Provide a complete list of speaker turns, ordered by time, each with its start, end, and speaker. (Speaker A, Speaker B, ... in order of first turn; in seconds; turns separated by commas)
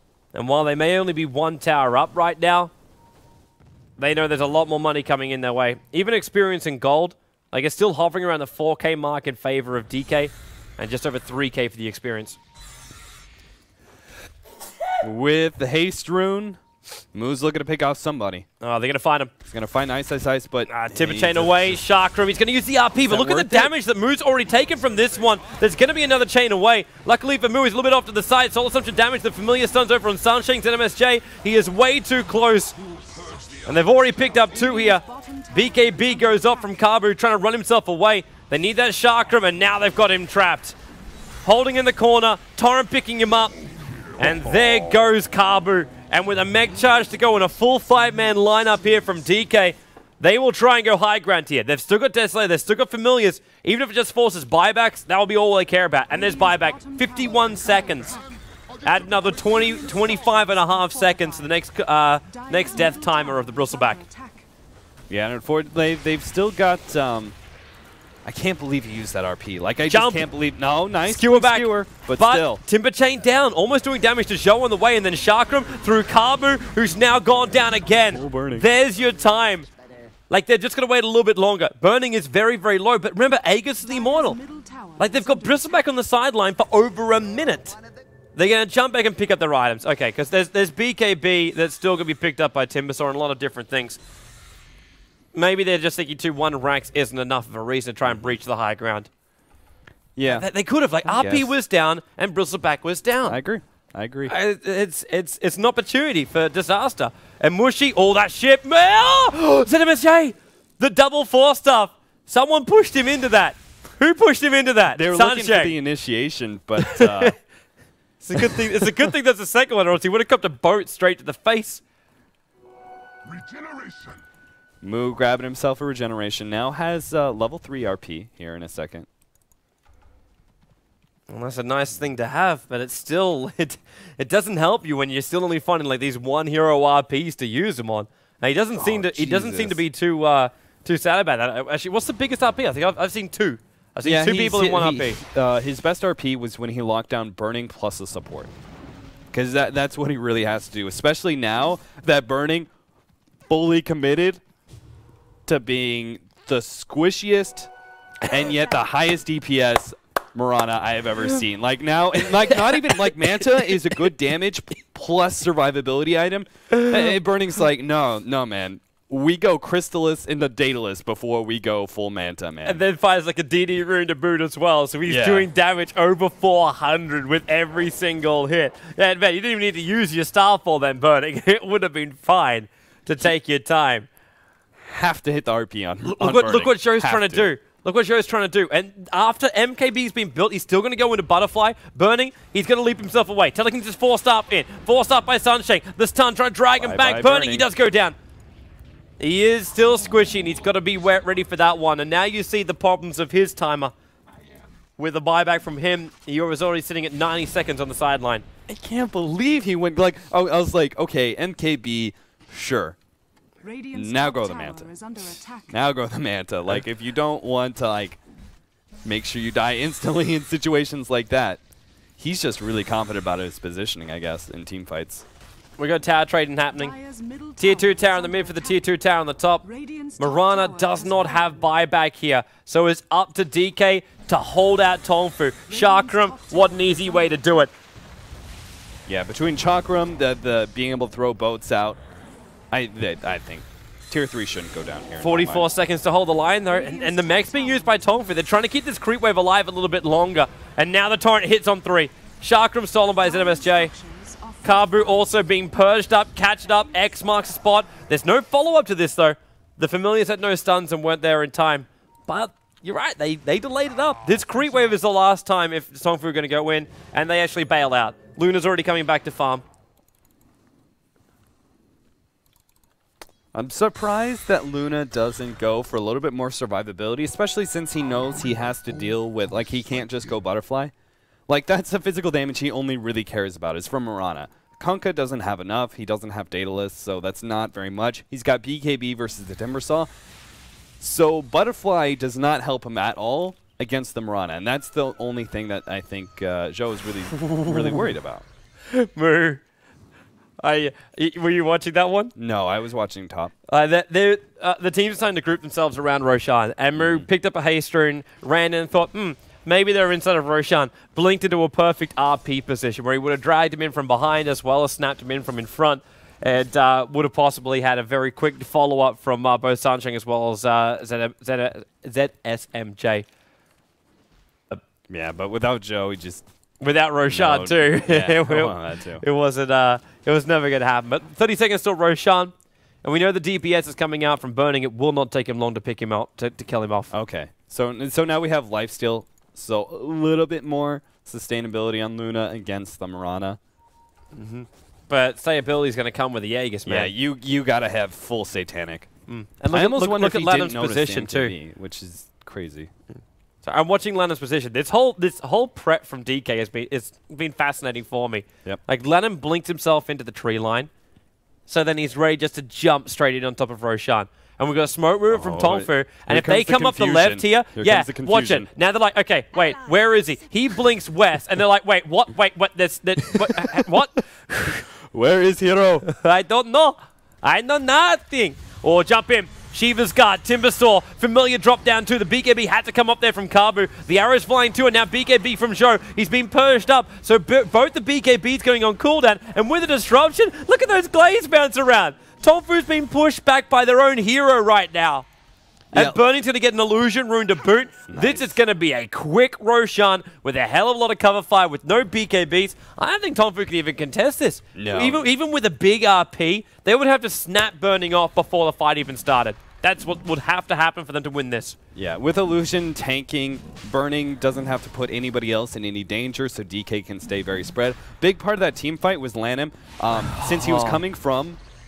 Speaker A: 0.3-2.7, Speaker A: 4.0-12.4, Speaker B: 15.0-16.6, Speaker B: 17.1-18.4, Speaker A: 18.6-19.3, Speaker B: 19.4-21.8, Speaker A: 20.7-32.8, Speaker B: 23.0-23.7, Speaker A: 33.6-40.8, Speaker C: 34.2-36.9, Speaker A: 41.4-43.6, Speaker A: 44.1-58.2, Speaker C: 56.1-61.5, Speaker A: 58.8-64.0, Speaker C: 62.2-64.5, Speaker B: 65.1-67.3, Speaker B: 68.2-72.6, Speaker A: 69.9-70.2, Speaker A: 71.0-79.7, Speaker B: 78.1-78.7, Speaker A: 80.3-84.4, Speaker C: 83.8-86.0, Speaker A: 85.0-87.8, Speaker A: 88.3-94.0, Speaker A: 95.3-99.1, Speaker B: 100.2-100.5, Speaker A: 100.2-103.4, Speaker B: 101.0-101.5, Speaker B: 103.2-104.3, Speaker A: 104.2-115.7, Speaker B: 114.9-117.4, Speaker A: 116.8-117.3, Speaker A: 118.2-121.8, Speaker B: 118.3-119.0, Speaker B: 124.8-129.1, Speaker A: 131.3-145.2, Speaker B: 138.8-139.8, Speaker B: 144.0-148.5, Speaker B: 149.3-152.7, Speaker B: 153.5-154.4, Speaker B: 155.4-157.7, Speaker B: 158.2-172.8, Speaker A: 162.6-163.1, Speaker A: 172.6-184.1, Speaker B: 175.1-175.5, Speaker B: 184.8-187.5, Speaker A: 186.0-198.2, Speaker B: 196.8-197.7, Speaker A: 199.2-203.9, Speaker A: 205.0-208.4, Speaker B: 208.7-213.0, Speaker C: 213.6-215.7, Speaker B: 213.9-218.2, Speaker B: 219.0-221.6, Speaker B: 222.2-225.2, Speaker A: 225.8-226.9, Speaker C: 226.7-229.0, Speaker A: 227.6-229.6, Speaker C: 229.6-231.8, Speaker A: 230.2-237.7, Speaker C: 235.7-237.7, Speaker B: 239.1-242.0, Speaker B: 242.7-245.7, Speaker A: 245.2-253.9, Speaker C: 246.7-248.3, Speaker C: 253.2-255.4, Speaker A: 254.6-269.6, Speaker B: 273.5-280.9, Speaker B: 281.5-290.1, Speaker B: 291.0-298.4, Speaker A: 297.4-298.1, Speaker A: 298.9-299.6, Speaker A: 300.6-302.3, Speaker B: 302.4-303.5, Speaker A: 303.7-323.2, Speaker B: 307.0-307.3, Speaker B: 325.1-326.4, Speaker A: 326.8-332.5, Speaker B: 327.2-329.2, Speaker A: 333.0-337.1, Speaker B: 337.1-343.6, Speaker A: 344.3-347.1, Speaker B: 346.9-349.1, Speaker A: 349.3-351.5, Speaker B: 349.7-352.9, Speaker A: 353.6-360.9, Speaker A: 361.7-374.8, Speaker B: 365.3-368.7, Speaker B: 373.4-373.7, Speaker B: 374.9-376.0, Speaker A: 376.0-395.3, Speaker B: 395.9-396.2, Speaker A: 395.9-411.8, Speaker B: 398.1-398.6, Speaker B: 404.7-405.2, Speaker B: 411.9-421.6, Speaker A: 420.3-421.0